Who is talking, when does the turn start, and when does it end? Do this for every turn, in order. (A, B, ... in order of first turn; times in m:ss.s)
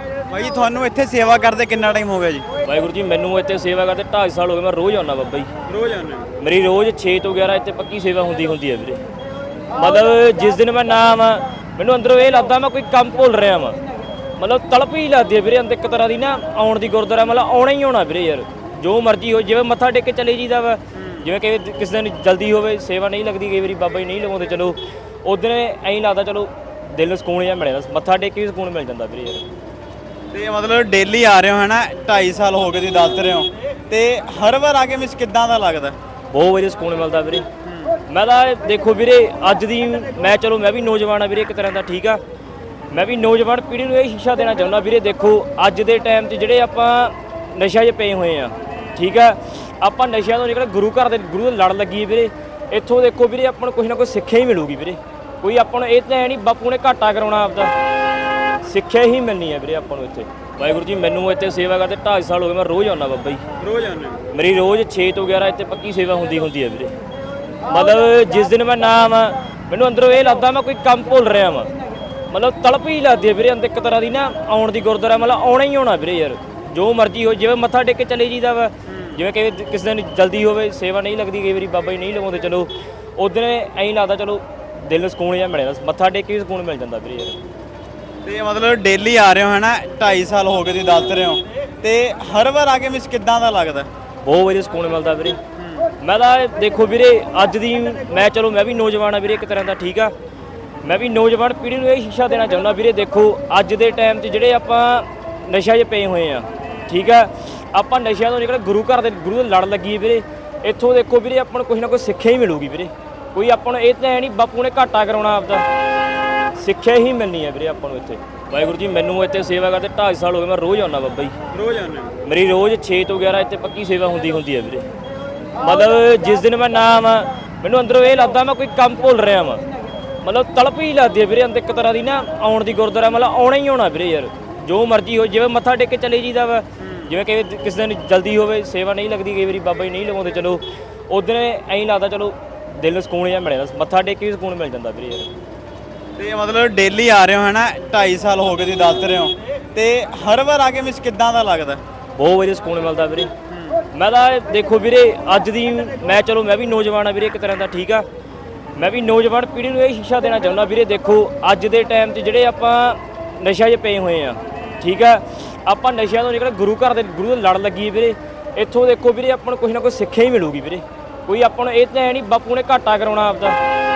0:00.3-0:02.5 A
0:02.6-0:05.5 B
0:05.7-0:06.3 A
0:06.4-0:09.0 B
0:09.7-0:13.8 B
0:14.4-0:29.4 B
0:21.0-0:21.2 A
0:30.3-0:36.0 A
0:36.3-0:37.5 B
0:37.7-0:38.0 A
0:38.1-0:42.2 B
0:42.9-0:57.7 B
0:58.6-1:03.4 B
1:03.6-1:04.2 A
1:04.3-1:06.9 B
1:07.6-1:11.7 B
1:12.3-1:27.4 B
1:18.9-1:19.2 A
1:28.2-1:33.9 A
1:34.2-1:35.4 B
1:35.6-1:35.9 A
1:36.0-1:40.1 B
1:40.8-1:55.7 B
1:56.6-2:01.3 B
2:01.5-2:02.1 A
2:02.2-2:04.9 B
2:05.6-2:09.6 B
2:10.2-2:25.3 B
2:16.8-2:17.1 A
2:26.2-2:31.8 A
2:32.2-2:33.3 B
2:33.5-2:33.8 A
2:33.9-2:38.0 B
2:38.7-2:53.6 B